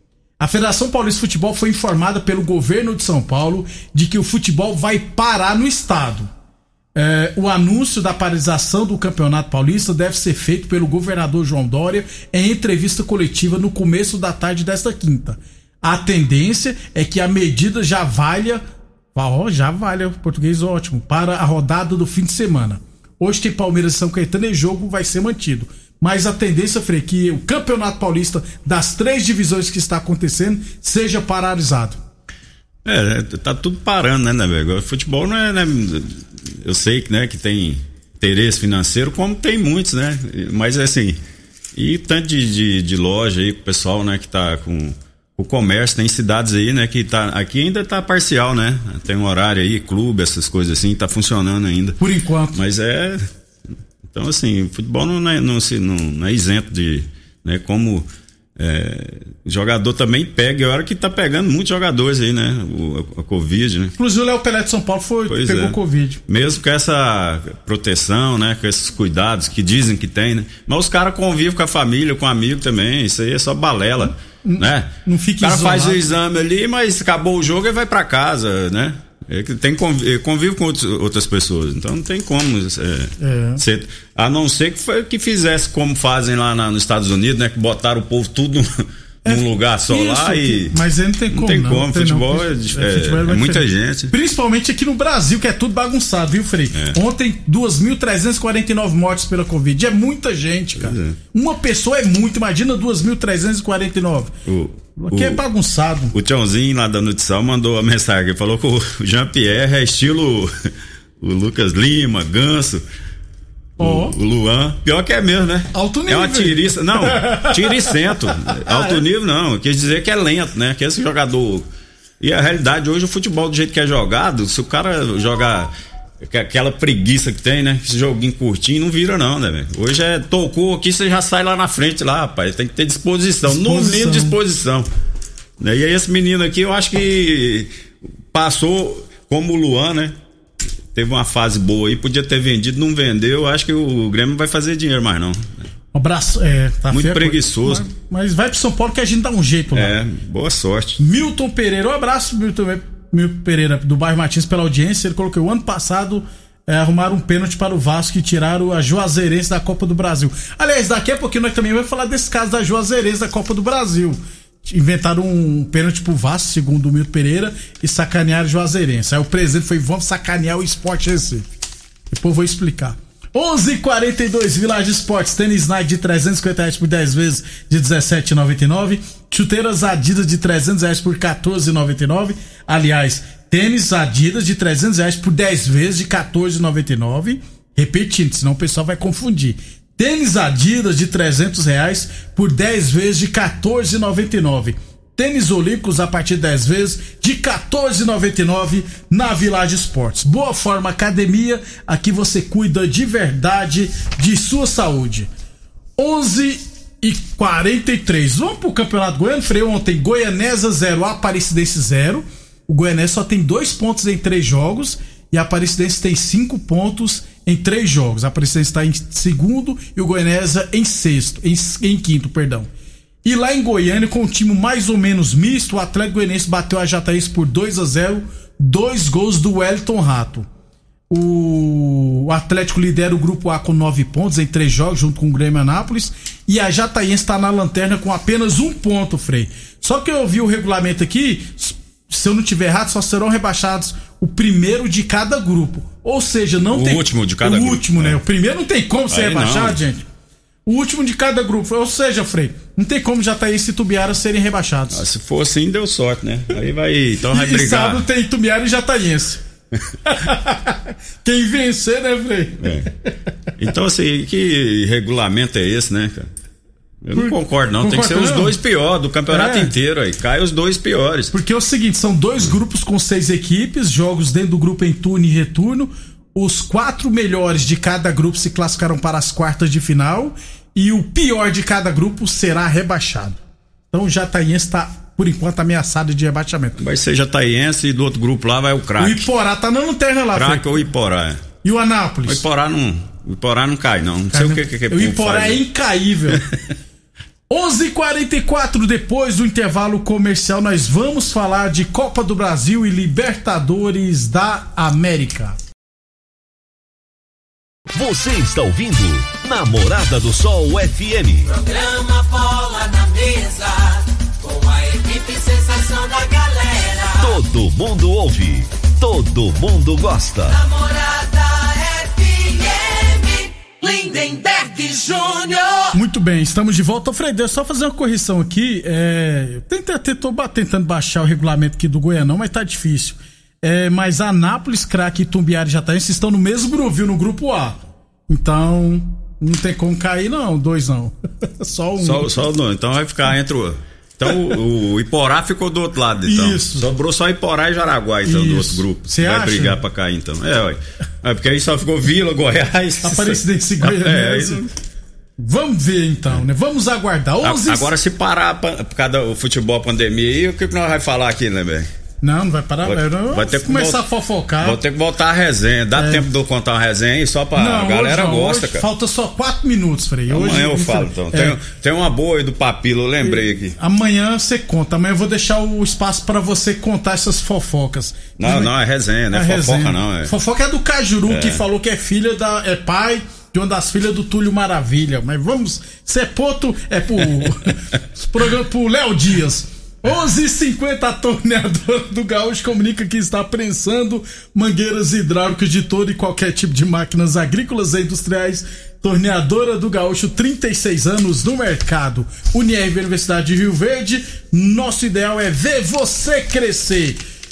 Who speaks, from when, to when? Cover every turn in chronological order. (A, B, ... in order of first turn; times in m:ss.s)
0:00.4-0:06.3 A
0:07.0-0:18.6 A
0:19.1-0:32.0 A
0:32.8-0:41.2 B
0:41.8-0:52.0 B
0:52.0-0:52.6 A
0:52.5-0:53.2 B
0:54.1-1:03.9 B
1:04.0-1:06.2 A
1:05.3-1:14.9 B
1:14.4-1:16.1 A
1:15.4-1:30.8 B
1:23.2-1:23.6 A
1:29.2-1:44.3 A
1:31.3-1:34.1 B
1:40.8-1:41.2 B
1:44.5-1:45.4 B
1:45.0-1:46.1 A
1:46.1-1:50.5 B
1:51.2-1:52.8 B
1:53.8-1:54.2 A
1:53.8-2:01.6 B
1:55.7-1:59.0 A
2:02.2-2:05.7 B
2:06.2-2:14.9 B
2:13.5-2:14.4 A
2:15.6-2:17.7 B
2:18.3-2:20.1 B
2:20.9-2:25.4 B
2:25.9-2:30.0 A
2:26.9-2:27.9 B
2:29.7-2:31.0 B
2:31.0-2:51.5 A
2:52.1-3:25.3 A
3:26.0-3:42.7 A
3:43.2-3:50.5 A
3:51.1-4:10.0 A
4:06.7-4:08.2 B
4:09.1-4:09.8 B
4:10.6-4:15.0 A
4:14.9-4:18.0 B
4:17.3-4:19.4 A
4:20.0-4:22.8 A
4:22.6-4:22.9 B
4:23.6-4:26.3 B
4:27.0-4:31.3 B
4:27.1-4:28.6 A
4:29.3-4:29.7 A
4:31.3-4:46.8 A
4:46.8-4:49.3 B
4:49.0-4:50.8 A
4:50.3-4:51.4 B
4:51.6-4:52.4 A
4:52.2-4:55.6 B
4:54.3-4:56.4 A
4:57.5-5:05.6 A
5:07.9-5:11.5 C
5:11.5-5:17.4 D
5:17.2-5:20.6 C
5:20.5-5:25.9 D
5:25.9-5:42.3 A
5:42.0-5:54.7 B
5:46.2-5:46.9 A
5:48.2-5:49.8 A
5:53.0-5:54.6 A
5:55.4-5:57.9 A
5:57.4-6:01.9 B
6:02.2-6:04.8 A
6:02.8-6:04.0 B
6:04.6-6:08.9 B
6:06.0-6:06.3 A
6:07.5-6:11.6 A
6:10.3-6:13.8 B
6:13.2-6:18.7 A
6:18.4-6:20.3 B
6:19.3-6:47.2 A
6:21.3-6:21.6 B